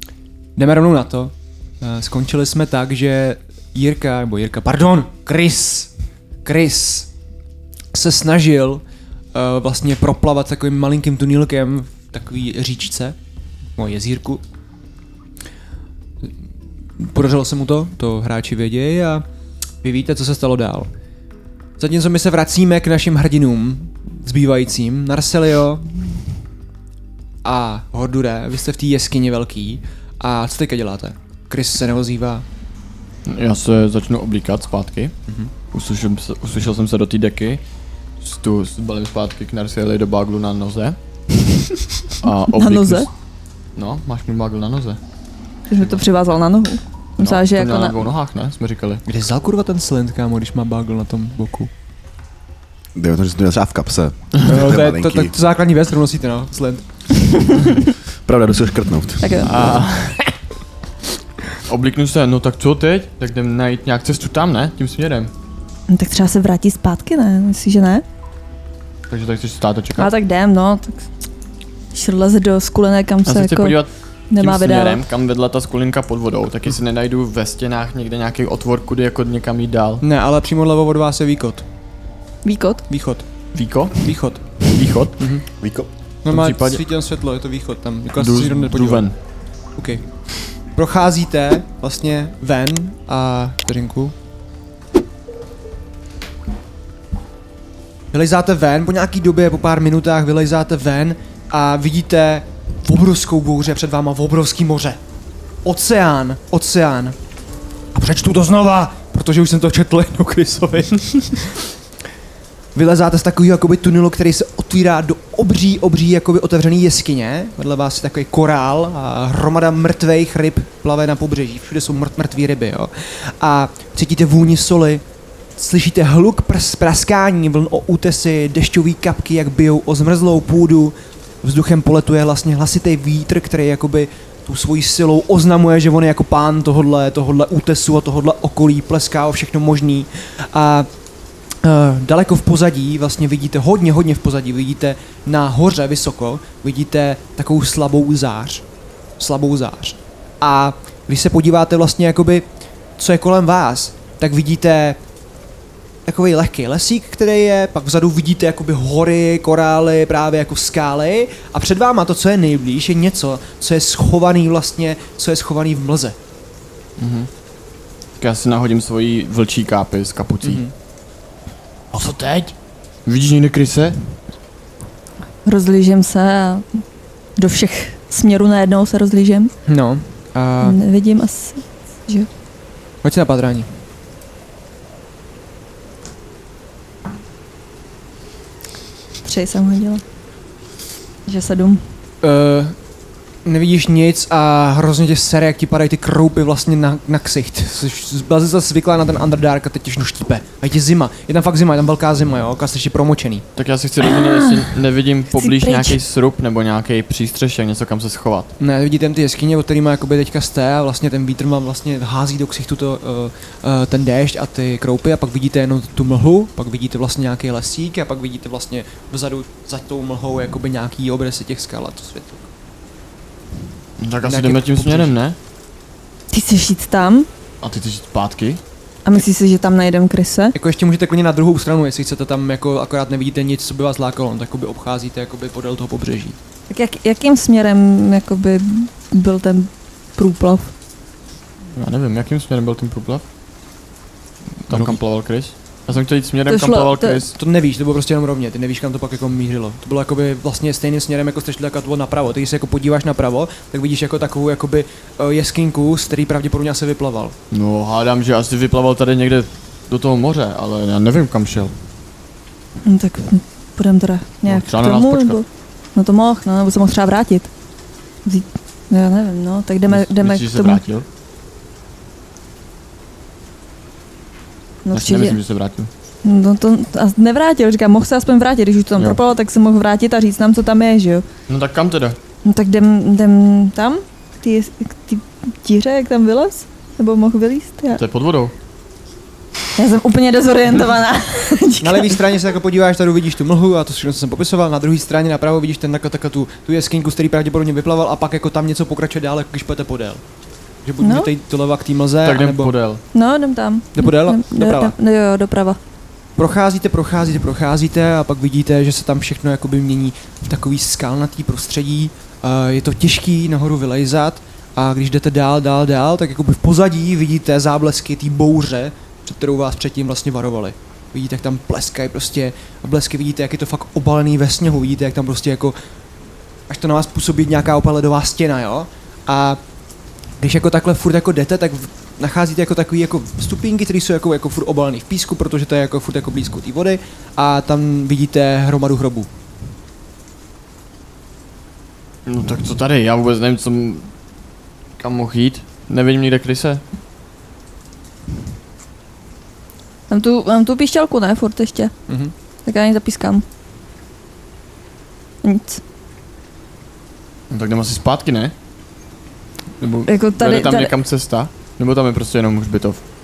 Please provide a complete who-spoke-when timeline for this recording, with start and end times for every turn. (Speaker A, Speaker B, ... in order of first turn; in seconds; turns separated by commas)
Speaker A: 0.6-5.9, Speaker A: 6.4-7.1, Speaker A: 7.9-13.2, Speaker A: 13.8-14.4, Speaker A: 17.0-19.2, Speaker A: 19.8-20.9, Speaker A: 21.8-25.9, Speaker A: 27.4-32.4, Speaker B: 33.2-35.1, Speaker B: 35.7-37.6, Speaker B: 38.2-41.0, Speaker B: 42.2-43.1, Speaker C: 42.5-43.1, Speaker B: 43.8-45.0, Speaker C: 45.7-48.0, Speaker B: 47.2-49.0, Speaker A: 49.0-51.7, Speaker D: 52.9-55.3, Speaker A: 54.4-56.8, Speaker C: 57.5-57.7, Speaker D: 58.2-59.5, Speaker C: 59.2-59.5, Speaker B: 59.4-60.2, Speaker B: 61.7-65.3, Speaker C: 65.9-68.0, Speaker B: 69.1-70.1, Speaker C: 70.0-71.0, Speaker C: 71.9-73.8, Speaker B: 73.2-80.0, Speaker C: 74.3-75.0, Speaker A: 80.0-81.7, Speaker C: 82.4-82.8, Speaker A: 82.9-83.2, Speaker B: 83.5-85.2, Speaker A: 84.0-84.4, Speaker A: 85.2-85.4, Speaker D: 85.6-85.9, Speaker A: 86.2-89.1, Speaker B: 86.3-86.8, Speaker B: 88.2-89.1, Speaker A: 89.8-90.0, Speaker A: 90.7-94.1, Speaker A: 98.1-105.0, Speaker A: 105.6-107.2, Speaker A: 107.9-111.6, Speaker A: 112.7-125.0, Speaker A: 125.6-140.9, Speaker A: 141.6-148.6, Speaker A: 149.2-155.0, Speaker A: 156.1-166.2, Speaker B: 167.0-167.3, Speaker B: 168.2-170.6, Speaker A: 170.4-170.7, Speaker B: 171.9-172.5, Speaker B: 173.1-174.0, Speaker C: 175.4-176.7, Speaker C: 177.4-179.5, Speaker A: 179.7-180.8, Speaker C: 180.6-182.3, Speaker A: 183.0-183.7, Speaker C: 189.2-190.0, Speaker C: 191.2-191.8, Speaker A: 192.2-192.8, Speaker A: 193.4-203.4, Speaker B: 203.6-208.5, Speaker C: 204.1-204.6, Speaker C: 205.4-206.0, Speaker A: 208.6-222.5, Speaker B: 224.0-225.4, Speaker A: 224.2-225.1, Speaker C: 226.3-227.3, Speaker B: 227.6-228.6, Speaker C: 229.0-230.5, Speaker A: 230.5-236.4, Speaker C: 236.7-240.7, Speaker B: 241.8-243.2, Speaker B: 244.7-247.3, Speaker A: 244.7-245.0, Speaker C: 246.5-247.2, Speaker A: 247.3-257.3, Speaker B: 257.5-261.7, Speaker C: 262.8-267.5, Speaker B: 264.4-265.4, Speaker C: 268.2-270.8, Speaker B: 269.9-271.1, Speaker C: 274.8-275.4, Speaker B: 274.9-275.9, Speaker C: 276.2-281.2, Speaker B: 281.5-282.2, Speaker C: 282.4-288.0, Speaker B: 287.9-288.5, Speaker C: 289.8-292.2, Speaker A: 291.8-300.2, Speaker A: 300.8-302.7, Speaker C: 301.0-301.3, Speaker B: 302.2-303.0, Speaker C: 303.1-305.8, Speaker A: 303.9-304.9, Speaker A: 306.4-325.8, Speaker A: 326.7-329.6, Speaker A: 330.4-339.3, Speaker B: 342.2-344.1, Speaker B: 345.0-346.8, Speaker C: 350.1-351.9, Speaker A: 352.1-352.3, Speaker C: 352.6-353.4, Speaker C: 355.4-355.8, Speaker B: 357.5-358.5, Speaker B: 359.8-363.0, Speaker C: 360.1-360.9